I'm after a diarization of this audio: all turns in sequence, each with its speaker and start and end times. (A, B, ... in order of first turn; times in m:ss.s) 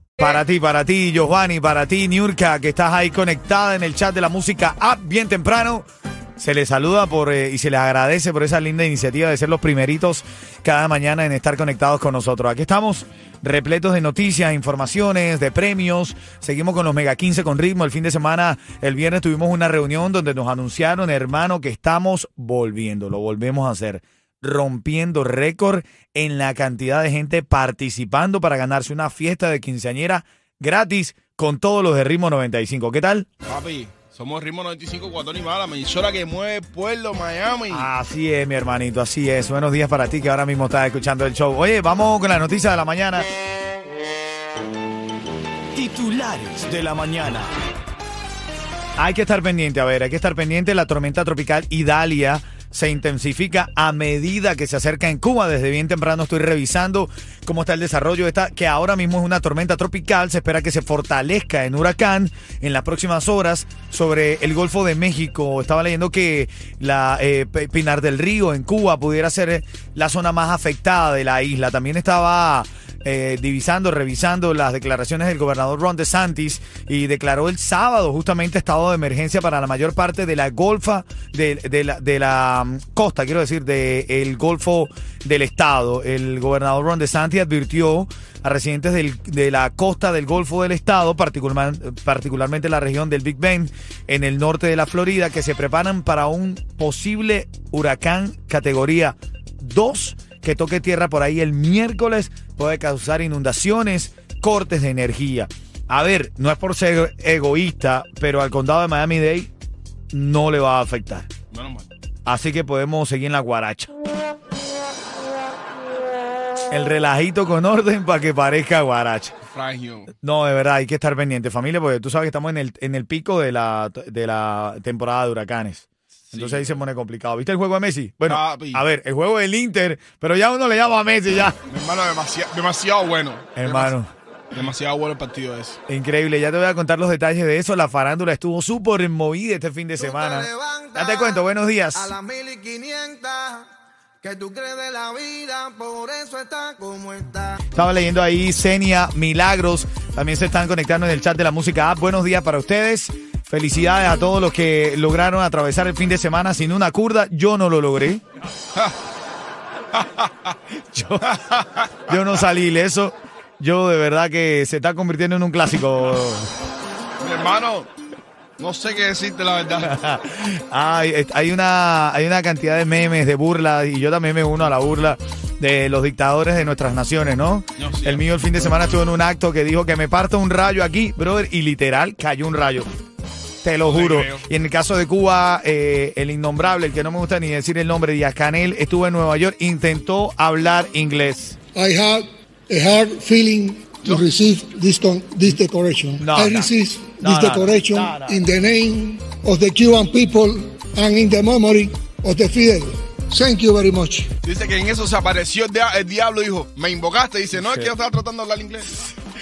0:00.2-0:05.8 A
0:06.4-0:33.3 A
0:33.4-0:37.9 B
0:37.7-0:43.3 A
0:45.7-0:47.5 A
0:49.0-1:49.5 A
1:50.1-1:51.3 A
1:51.5-1:51.9 B
1:52.2-1:53.9 A
1:56.7-1:59.3 A
1:59.5-2:00.1 B
2:00.2-2:11.6 A
2:06.3-2:06.8 B
2:08.2-2:08.8 B
2:11.7-2:13.9 B
2:13.6-2:14.1 A
2:14.5-2:15.8 B
2:15.9-2:22.1 A
2:20.0-2:21.4 C
2:21.9-2:23.7 C
2:24.2-2:27.6 C
2:27.7-2:38.2 A
2:39.9-2:40.5 B
2:40.7-2:41.3 A
2:41.2-2:42.1 B
2:42.1-2:46.5 A
2:47.2-2:47.9 B
2:48.6-2:49.9 B
2:49.8-3:02.9 A
2:57.8-2:58.2 B
3:03.6-3:11.6 A
3:03.8-3:04.4 B
3:11.7-3:24.3 D
3:16.2-3:18.4 A
3:24.4-3:28.9 B
3:27.6-3:27.9 A